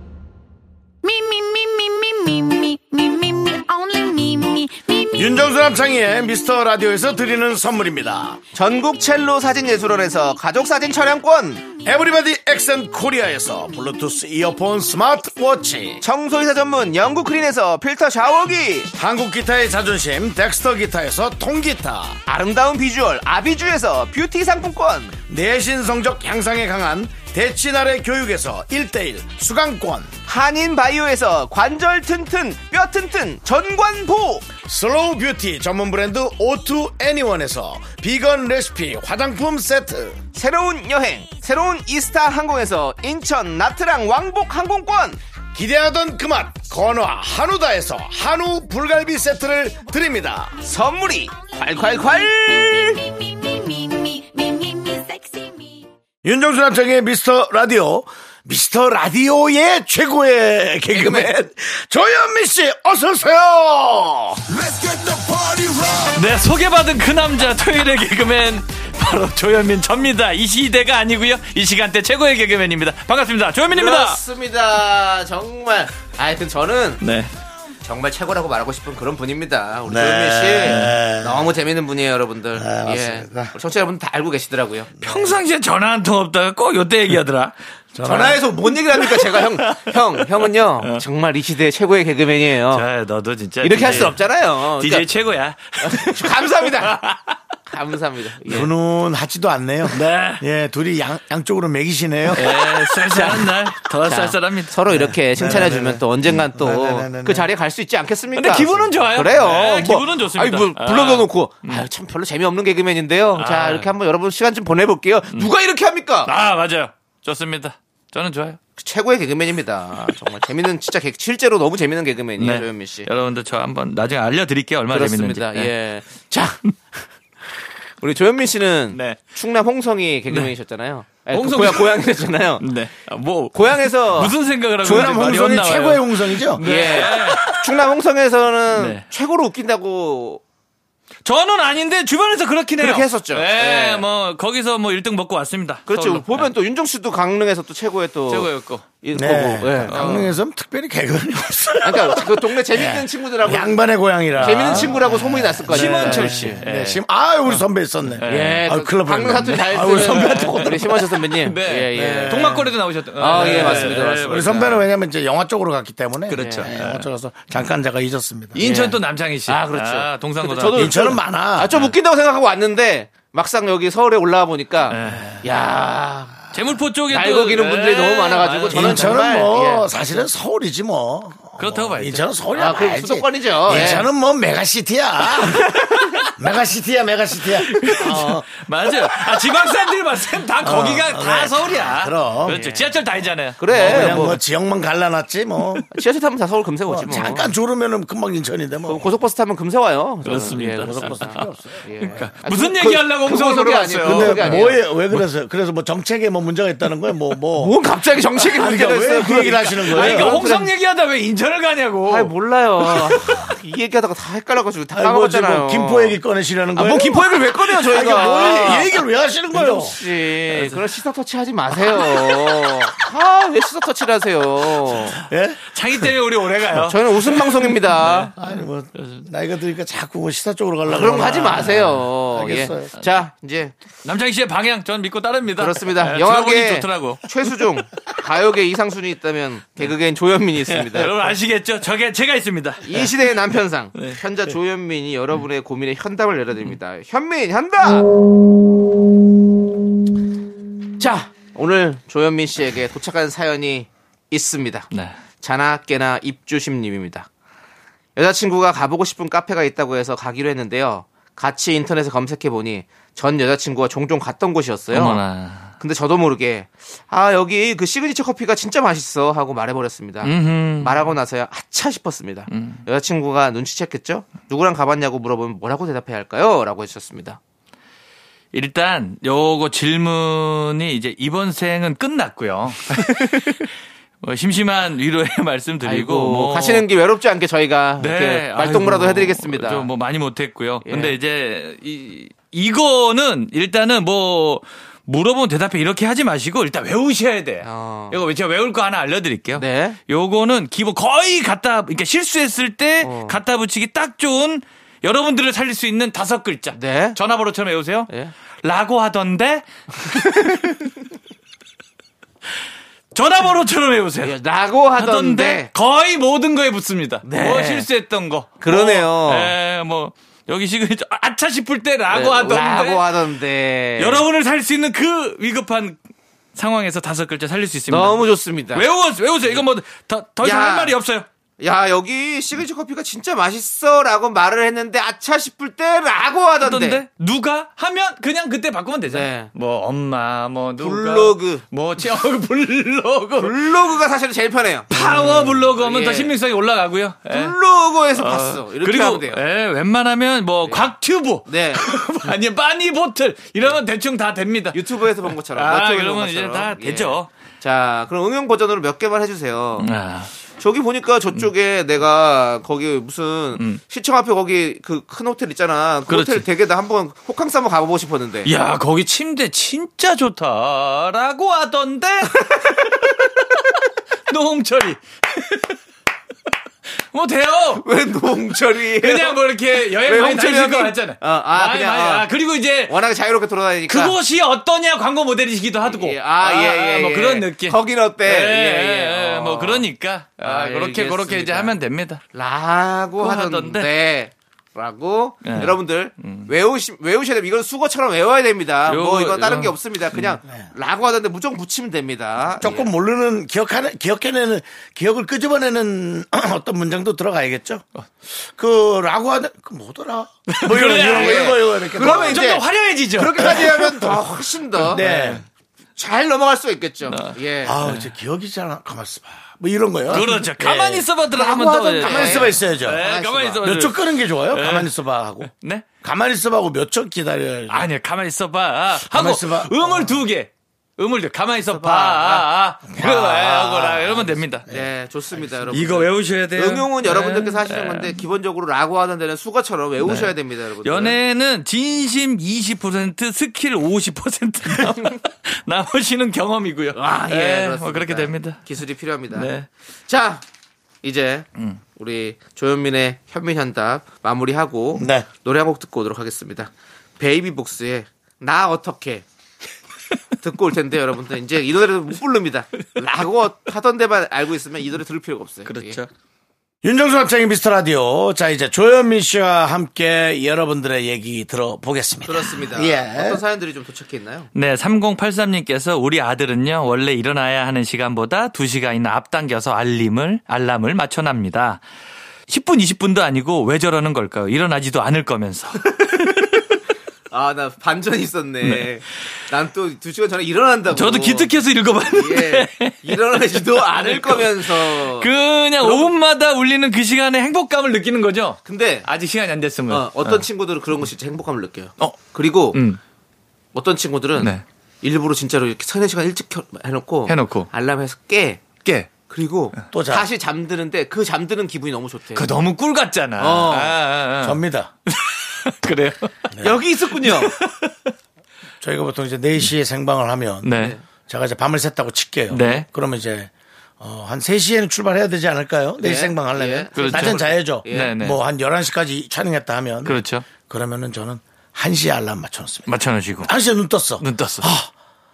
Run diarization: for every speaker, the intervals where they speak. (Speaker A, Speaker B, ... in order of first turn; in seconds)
Speaker A: 1.0-5.5, 51.3-55.9
Speaker B: 5.2-8.4, 11.8-16.0, 19.0-22.2, 25.3-30.1, 34.6-40.2, 45.5-50.5, 56.2-66.1, 79.9-81.5, 82.6-83.5, 85.0-85.3, 88.0-88.5, 98.5-102.7, 105.2-107.5, 134.8-136.6, 149.2-161.1, 161.9-162.7, 163.3-168.6, 170.8-171.7, 178.7-185.7, 186.4-189.7, 190.6-192.6, 193.7-195.9, 196.9-199.1, 200.8-202.3, 204.1-207.7, 208.6-210.4, 214.9-220.0, 225.3-225.8, 228.3-233.0, 402.6-412.5, 413.4-414.1, 414.9-415.4, 417.6-423.0, 423.6-425.5, 426.0-427.9, 429.1-430.1, 432.9-434.8, 455.0-455.2, 466.8-473.4, 509.9-510.3, 514.4-514.9, 516.5-516.8, 518.8-520.7, 521.3-534.9
Speaker C: 8.5-11.7, 16.0-18.9, 22.3-25.2, 30.3-34.5, 40.3-45.2, 50.6-53.0, 60.9-61.5, 73.7-77.0, 77.8-84.9, 88.0-92.9, 93.6-95.1, 95.8-97.0, 97.7-98.7, 103.1-116.3, 118.8-123.1, 124.9-127.0, 128.0-132.7, 133.5-134.4, 136.6-140.4, 142.8-144.1, 145.9-148.5, 149.0-150.3, 151.8-153.8, 154.4-156.6, 158.3-164.6, 166.3-166.7, 168.6-176.4, 177.1-180.2, 182.6-184.1, 192.5-193.0, 193.6-194.4, 195.9-197.5, 198.9-204.8, 207.6-210.7, 212.1-216.2, 216.8-219.0, 219.5-225.2, 226.8-228.3, 230.9-233.8, 235.6-241.3, 242.8-248.1, 251.0-254.9, 255.4-257.3, 258.2-265.2, 265.8-277.4, 285.8-289.9, 290.8-291.2, 297.6-298.2, 299.6-300.0, 303.0-303.4, 306.7-307.2, 314.2-315.7, 317.2-317.9, 318.6-319.5, 322.1-324.2, 327.9-328.9, 330.4-331.0, 331.6-337.0, 339.1-339.5, 340.8-341.6, 343.4-346.4, 347.3-349.4, 350.6-350.9, 351.4-351.9, 354.7-359.9, 360.6-368.5, 377.8-382.3, 382.9-384.2, 385.8-389.9, 390.4-391.8, 392.3-402.9, 410.9-415.0, 416.0-417.8, 420.1-420.4, 421.4-423.7, 431.7-432.5, 434.7-441.2, 444.9-445.1, 446.9-449.5, 450.1-450.4, 451.0-459.2, 460.4-466.0, 472.2-474.5, 487.3-491.5, 492.0-496.1, 498.6-499.1, 499.9-502.8, 503.7-508.7, 509.3-512.5, 513.4-514.0, 516.6-517.5, 520.7-521.0, 526.0-528.1
Speaker D: 66.1-74.2, 77.0-77.3, 80.7-81.0, 85.0-87.5, 89.0-91.0, 92.7-94.3, 94.8-97.4, 99.9-100.4, 102.3-104.8, 108.3-111.9, 113.4-113.9, 116.3-118.6, 122.4-125.7, 128.9-129.2, 131.3-132.1, 132.6-137.7, 138.7-139.0, 141.2-146.5, 148.3-148.9, 149.9-150.3, 154.4-154.9, 155.7-158.7, 159.4-164.9, 166.3-167.1, 168.6-171.2, 174.9-175.4, 176.5-179.3, 181.6-182.2, 183.7-184.0, 185.4-186.3, 187.5-194.4, 200.2-205.3, 209.9-212.3, 212.8-213.5, 220.5-220.8, 225.7-229.2, 234.0-237.2, 240.8-243.1, 243.9-244.2, 254.9-255.2, 264.9-265.7, 270.2-271.0, 272.5-272.8, 278.5-283.7, 284.2-286.9, 288.0-308.1, 308.6-310.7, 313.1-314.4, 315.0-323.1, 324.0-326.0, 326.6-328.2, 328.7-331.3, 336.6-343.6, 344.9-347.6, 348.2-357.3, 359.8-360.3, 366.1-366.4, 368.4-373.7, 374.3-375.8, 377.1-377.8, 379.0-383.0, 383.9-392.2, 393.2-393.9, 395.4-396.5, 398.9-400.4, 410.5-413.9, 414.8-415.4, 417.1-418.1, 420.1-425.9, 427.7-434.6, 435.7-438.2, 440.0-448.6, 449.3-449.7, 465.7-466.1, 474.6-481.8, 482.5-486.6, 490.9-500.4, 502.7-503.0, 504.4-504.6, 507.3-507.7, 508.8-509.1, 512.4-516.5, 517.2-518.1, 520.6-521.0, 522.5-522.9, 527.0-528.4, 530.0-530.5, 532.9-533.5, 534.2-534.7